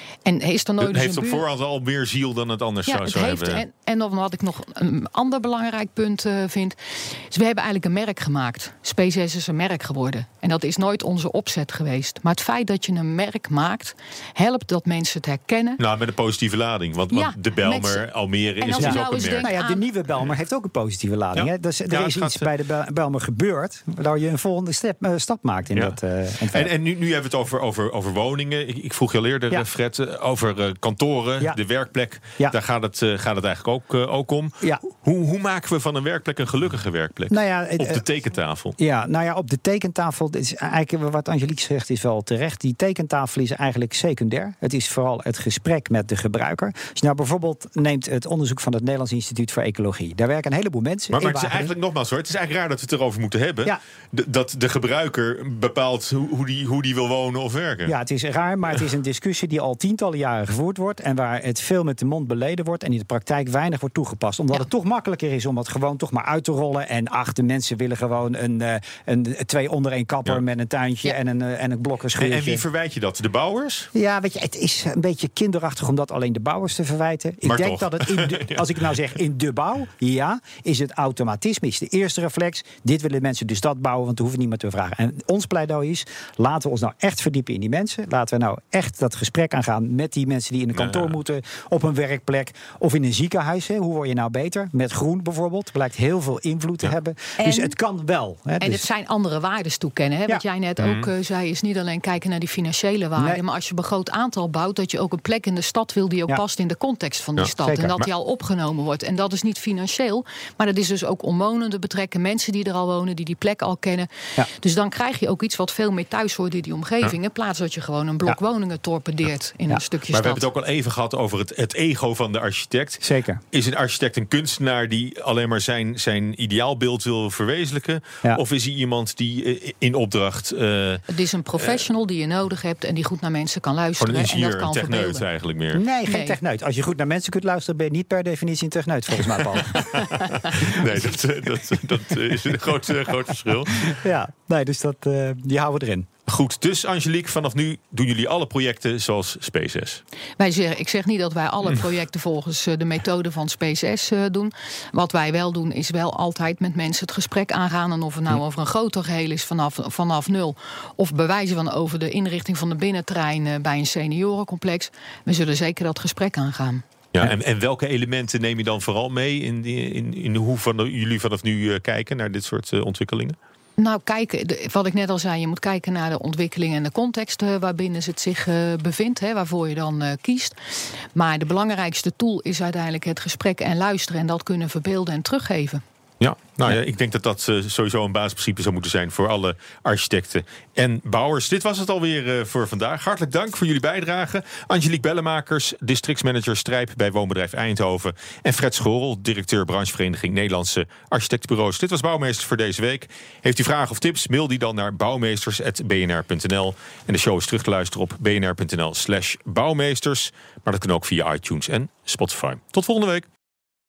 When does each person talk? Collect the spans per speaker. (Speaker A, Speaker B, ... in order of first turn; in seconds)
Speaker A: 0.2-1.4, 2.9-15.8, 17.1-18.0, 18.6-19.8, 97.4-97.7, 98.6-120.4, 131.1-135.2, 136.1-136.4, 150.4-166.8, 173.8-180.6, 181.1-185.8
Speaker B: 0.8-3.6, 15.8-19.5, 21.3-22.5, 26.5-38.8, 51.1-57.9, 72.2-73.9, 77.4-78.8, 90.8-91.1, 100.8-101.1, 107.4-108.0, 120.1-131.0, 131.6-131.8, 134.0-135.8, 139.7-144.0, 146.3-150.0, 167.1-173.3, 186.2-213.3
Speaker C: 18.8-26.7, 37.3-38.0, 38.8-51.7, 57.9-72.6, 73.9-98.8, 103.2-103.4, 107.6-107.9, 123.0-123.4, 135.7-141.6, 143.7-146.1